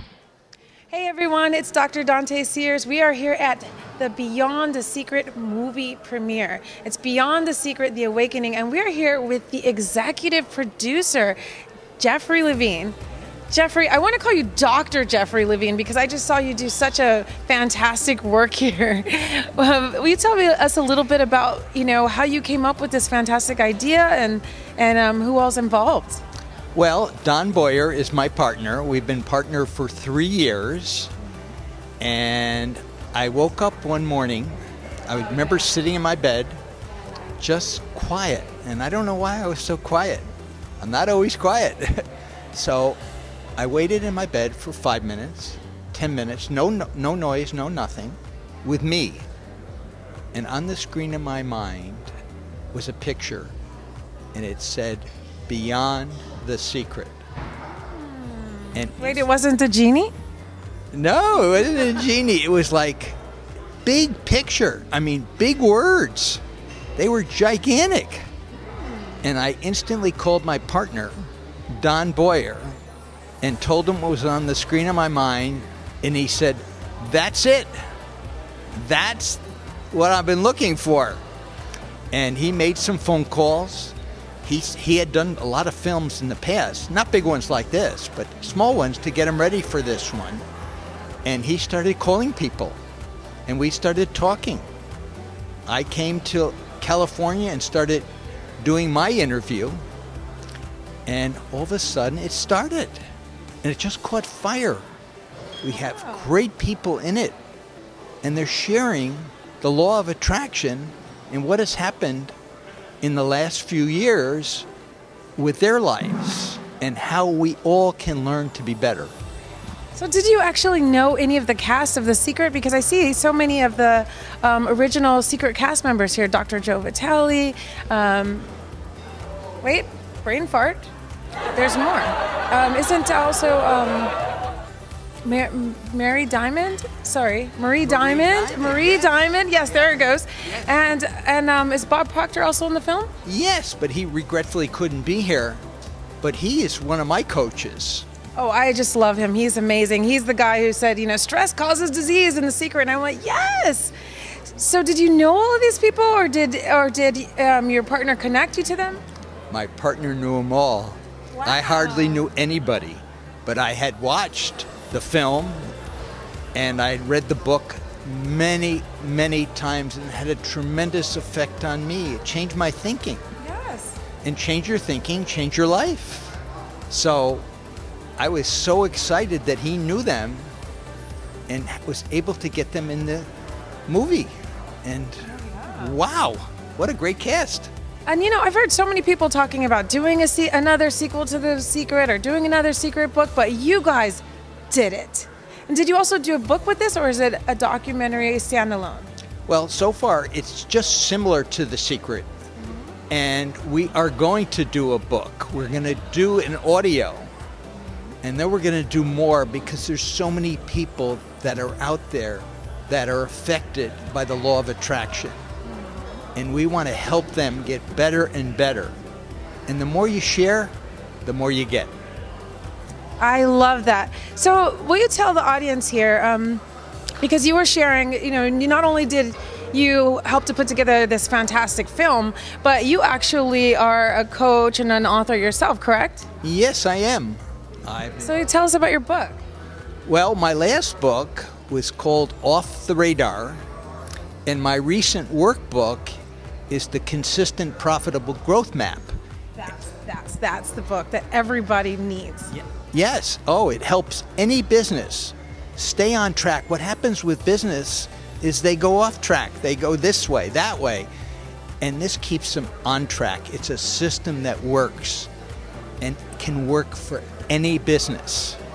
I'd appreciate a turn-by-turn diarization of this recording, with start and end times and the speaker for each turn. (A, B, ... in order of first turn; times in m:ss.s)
0:00.9-0:11.4 A
0:12.0-0:13.0 A
0:13.5-0:26.2 A
0:26.7-0:31.1 B
0:32.0-0:36.6 B
0:37.4-0:40.3 B
0:40.8-0:43.0 B
0:43.6-0:49.2 B
0:50.3-0:52.1 B
0:52.7-0:53.5 B
0:54.3-0:57.2 B
0:57.9-1:00.1 A
0:58.7-0:59.2 B
1:00.9-1:03.2 B
1:03.8-1:06.4 B
1:07.0-1:08.3 B
1:09.2-1:11.2 B
1:11.7-1:12.8 B
1:13.4-1:17.7 B
1:18.8-1:21.2 B
1:22.1-1:30.4 B
1:31.2-1:32.8 B
1:33.5-1:34.7 B
1:35.7-1:38.1 B
1:38.6-1:39.8 B
1:41.1-1:43.0 B
1:43.6-1:44.9 B
1:45.6-1:47.4 B
1:45.7-1:46.4 A
1:48.2-1:52.3 B
1:53.0-1:54.7 B
1:55.4-1:59.1 B
2:00.0-2:08.5 A
2:09.6-2:10.9 A
2:11.6-2:14.1 A
2:15.2-2:23.1 A
2:17.8-2:19.5 B
2:23.2-2:25.6 B
2:26.2-2:28.1 B
2:28.4-2:33.9 A
2:34.5-2:39.0 A
2:39.5-2:45.7 B
2:41.4-2:42.3 A
2:46.5-2:53.2 B
2:53.4-2:54.0 A
2:54.2-2:56.4 B
2:56.9-2:57.5 B
2:58.2-3:00.5 B
3:01.5-3:03.3 B
3:03.9-3:04.3 B
3:04.8-3:07.7 B
3:05.3-3:06.0 A
3:08.1-3:19.1 A
3:19.5-3:22.3 B
3:22.6-3:22.9 A
3:23.1-3:27.3 B
3:28.2-3:35.4 B
3:36.4-3:39.0 B
3:39.7-3:40.7 B
3:41.2-3:41.9 B
3:43.2-3:46.6 A
3:47.2-3:56.3 A
3:56.4-3:58.3 B
3:58.2-3:59.4 A
4:00.1-4:03.6 B
4:04.5-4:06.2 B
4:06.7-4:09.1 B
4:09.6-4:12.5 A
4:12.5-4:21.1 B
4:21.8-4:25.3 B
4:26.0-4:28.6 B